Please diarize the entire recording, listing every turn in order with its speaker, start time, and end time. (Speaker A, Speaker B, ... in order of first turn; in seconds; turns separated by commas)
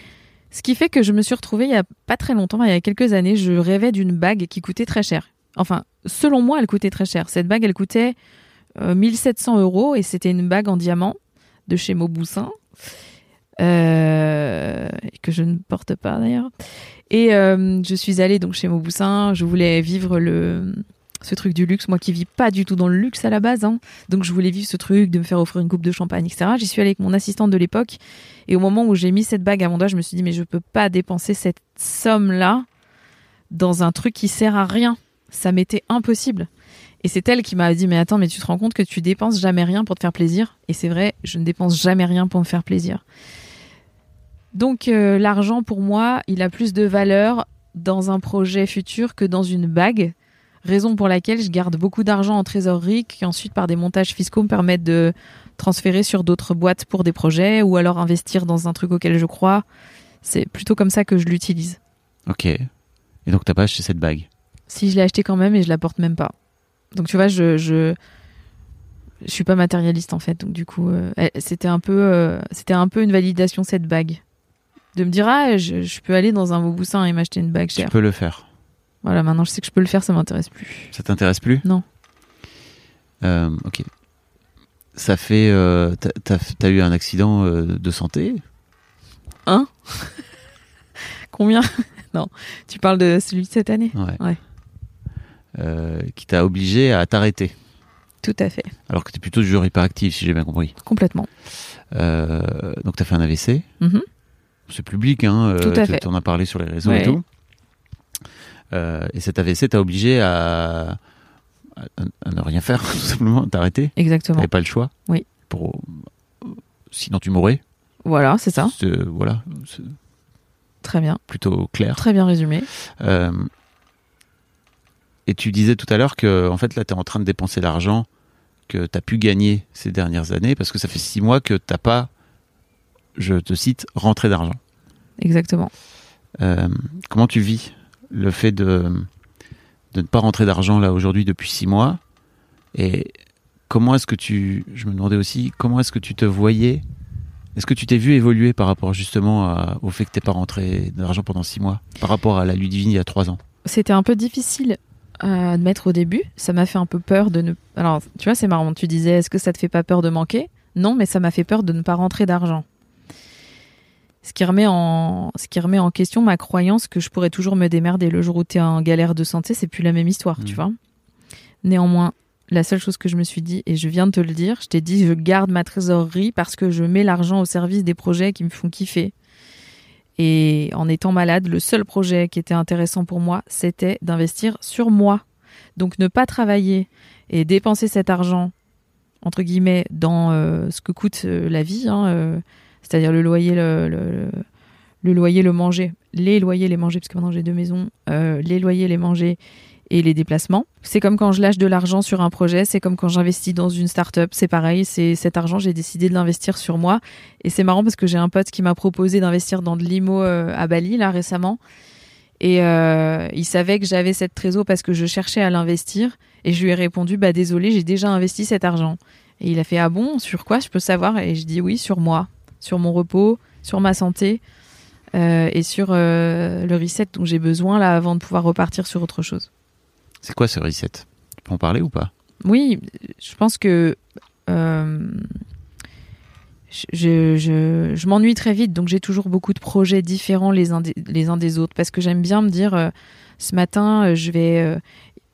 Speaker A: 0.5-8.2, Speaker A: 8.8-12.5, Speaker A: 13.6-16.5, Speaker A: 17.1-32.6, Speaker A: 33.5-36.5, Speaker A: 37.0-43.0, Speaker A: 44.5-50.1, Speaker A: 50.6-59.6, Speaker A: 60.2-61.8, Speaker B: 62.3-62.7, Speaker B: 63.2-64.3, Speaker A: 64.7-66.3, Speaker A: 66.9-68.0, Speaker A: 69.2-74.2, Speaker A: 74.9-77.9, Speaker B: 77.8-78.4, Speaker A: 79.0-80.9, Speaker B: 80.9-81.6, Speaker B: 83.2-83.8, Speaker B: 84.9-88.4, Speaker A: 89.5-90.2, Speaker A: 91.3-94.4, Speaker B: 93.9-94.2, Speaker B: 95.5-97.5, Speaker A: 98.2-98.7, Speaker B: 98.9-100.7, Speaker A: 100.8-101.3, Speaker B: 101.9-103.7, Speaker B: 104.7-107.2, Speaker A: 105.6-106.0, Speaker A: 106.8-107.2, Speaker B: 108.7-111.0, Speaker B: 111.7-114.9, Speaker A: 114.0-114.5, Speaker B: 115.5-117.6, Speaker A: 118.0-118.7, Speaker B: 118.6-120.0, Speaker A: 120.8-121.2, Speaker B: 121.3-122.0, Speaker A: 121.9-122.7, Speaker B: 122.7-123.5, Speaker B: 125.2-128.1, Speaker B: 128.7-132.1, Speaker B: 133.1-134.6, Speaker A: 135.2-135.7, Speaker B: 136.4-139.1, Speaker B: 139.9-142.0, Speaker B: 142.7-143.1, Speaker B: 143.7-146.8, Speaker B: 147.5-153.4, Speaker A: 153.6-162.6, Speaker A: 164.2-170.8, Speaker A: 171.6-179.1, Speaker A: 180.2-185.2, Speaker A: 185.8-188.5, Speaker A: 189.2-194.4, Speaker A: 195.0-211.6, Speaker A: 212.4-224.4, Speaker A: 225.1-229.5, Speaker B: 230.2-232.1, Speaker A: 232.4-235.3, Speaker A: 236.7-244.8